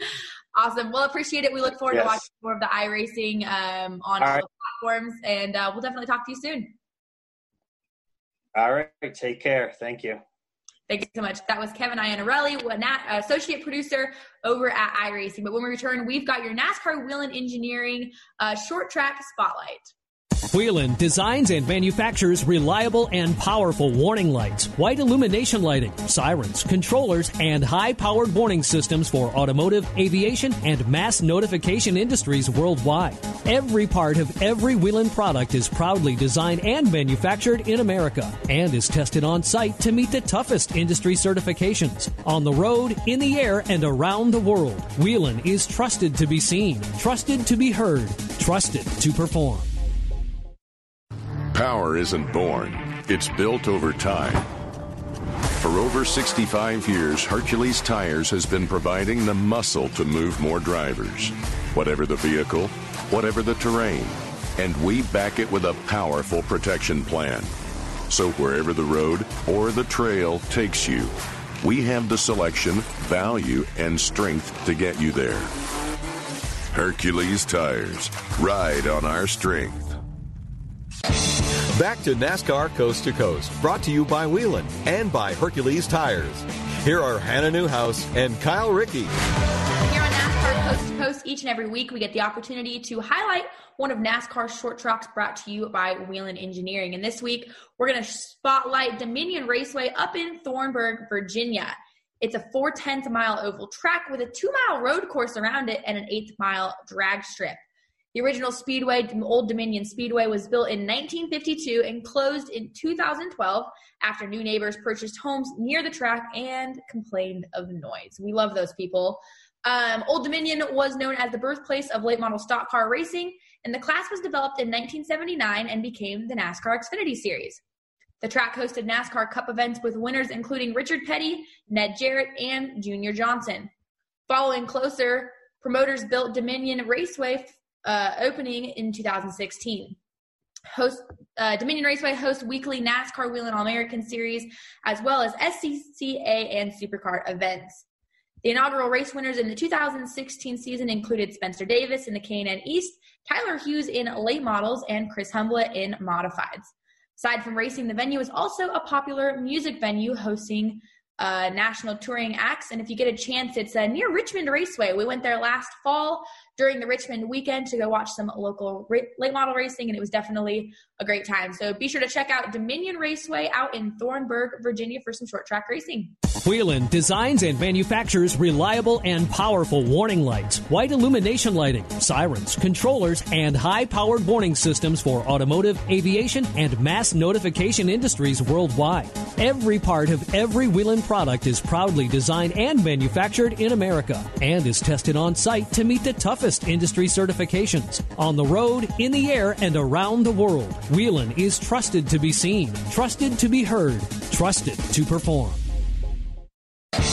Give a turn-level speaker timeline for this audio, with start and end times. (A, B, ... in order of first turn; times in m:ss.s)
0:00.6-0:06.7 A
0:01.9-0:02.2 B
0:04.2-0:04.4 B
0:08.6-0:10.2 B
0:10.9-0:19.9 A
0:20.5-0:49.7 C
0:51.5-0:54.5 D
0:55.6-1:07.5 D
1:08.1-1:15.5 D
1:16.7-1:20.0 D
1:21.7-1:29.1 E
1:29.9-1:47.6 A
1:48.1-2:07.6 A
2:08.2-2:13.7 A
2:14.3-2:20.0 A
2:20.7-2:27.8 A
2:28.4-2:56.1 A
2:56.4-3:25.6 C